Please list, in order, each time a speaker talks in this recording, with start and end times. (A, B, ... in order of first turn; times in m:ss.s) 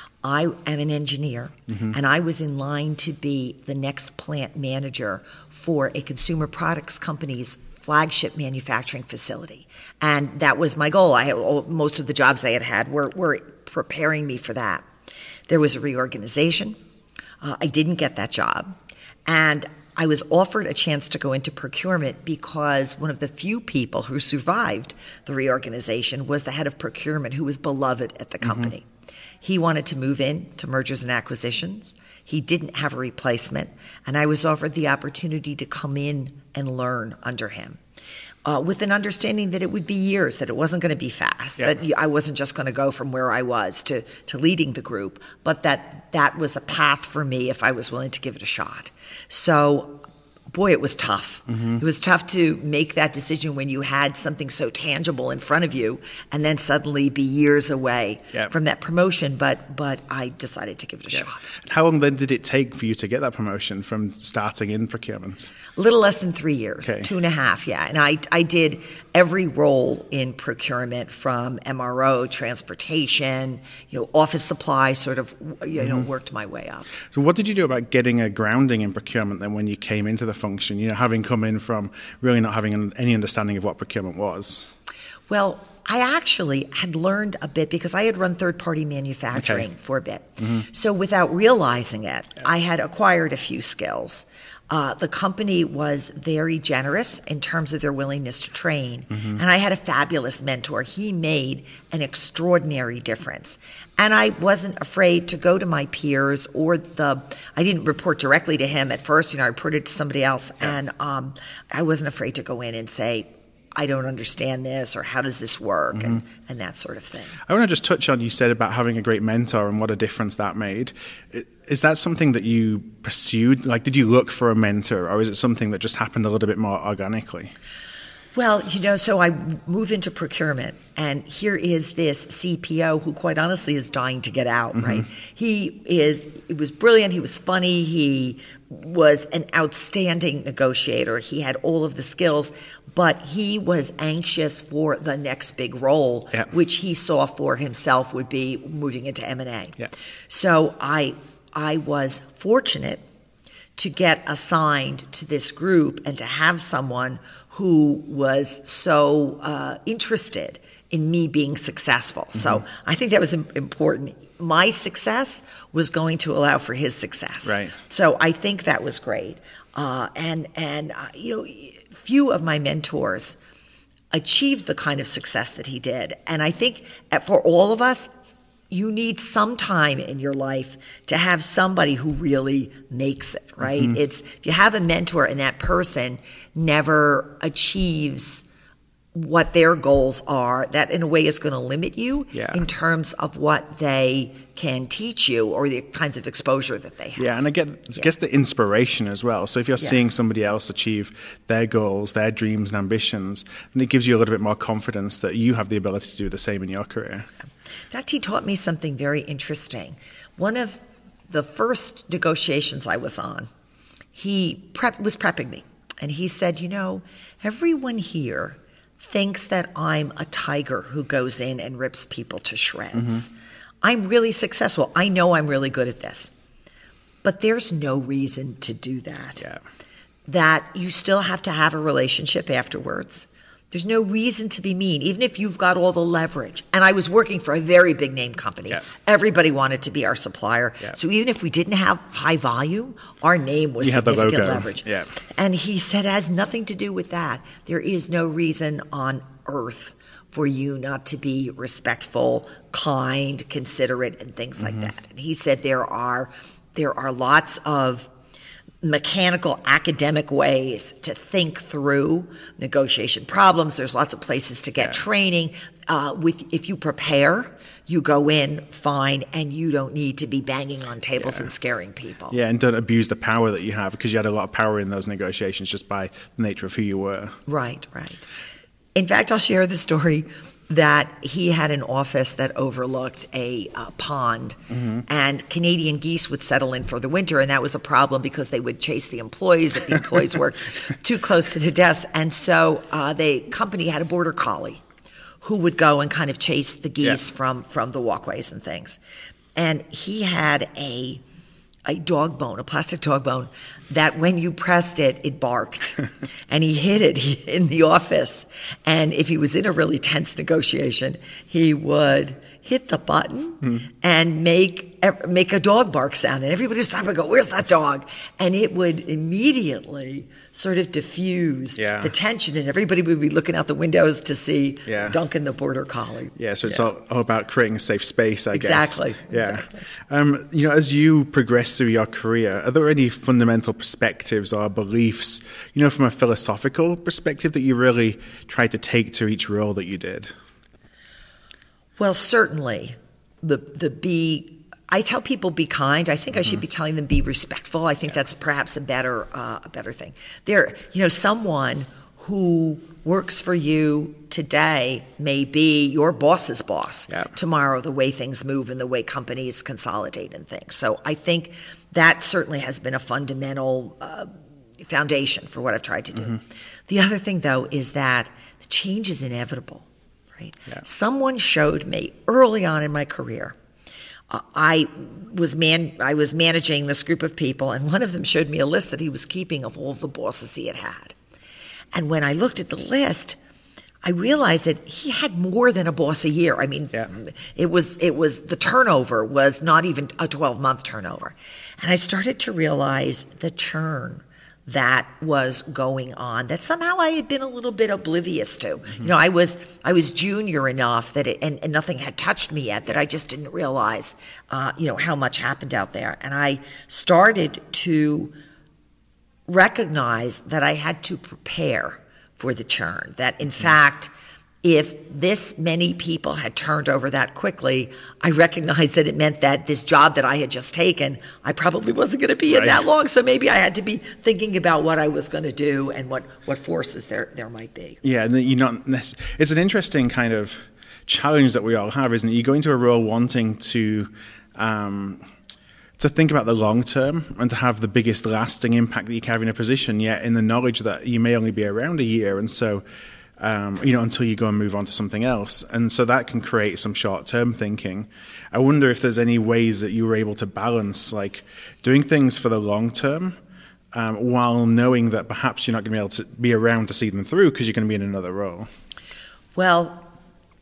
0:00.2-0:14.8 A
0:15.5-0:16.8 A
0:17.4-0:18.8 A
0:19.2-0:28.9 A
0:29.4-0:37.8 A
0:38.4-1:01.5 A
1:01.6-1:05.5 B
1:05.8-1:16.9 A
1:06.8-1:07.1 B
1:17.1-1:24.7 B
1:25.3-1:57.4 A
1:29.4-1:29.6 B
1:57.5-2:07.5 B
2:08.3-2:29.8 A
2:30.3-2:33.0 A
2:33.8-2:53.4 A
2:47.4-2:47.8 B
2:54.1-3:08.4 A
3:03.7-3:04.0 B
3:09.1-3:17.3 A
3:12.3-3:12.6 B
3:17.2-3:27.3 B
3:27.9-3:33.5 A
3:34.1-3:43.3 A
3:43.8-3:46.3 A
3:47.2-3:49.4 A
3:50.3-4:18.1 A
4:03.8-4:05.1 B
4:18.8-4:32.4 A
4:32.3-4:37.4 B
4:37.5-4:38.3 A
4:38.9-4:54.8 A
4:55.4-4:59.0 A
4:59.6-5:01.2 A
5:01.9-5:26.8 A
5:21.8-5:22.1 B
5:24.9-5:25.2 B
5:26.4-5:40.3 B
5:28.5-5:29.8 A
5:42.0-6:13.6 A
6:14.3-6:21.2 A
6:21.9-6:23.4 A
6:24.0-6:48.4 A
6:49.5-6:54.1 A
6:54.6-7:08.0 A
7:02.5-7:02.8 B
7:08.0-7:15.2 B
7:16.0-7:22.8 B
7:23.4-7:33.4 B
7:33.9-7:38.7 B
7:39.5-7:40.1 A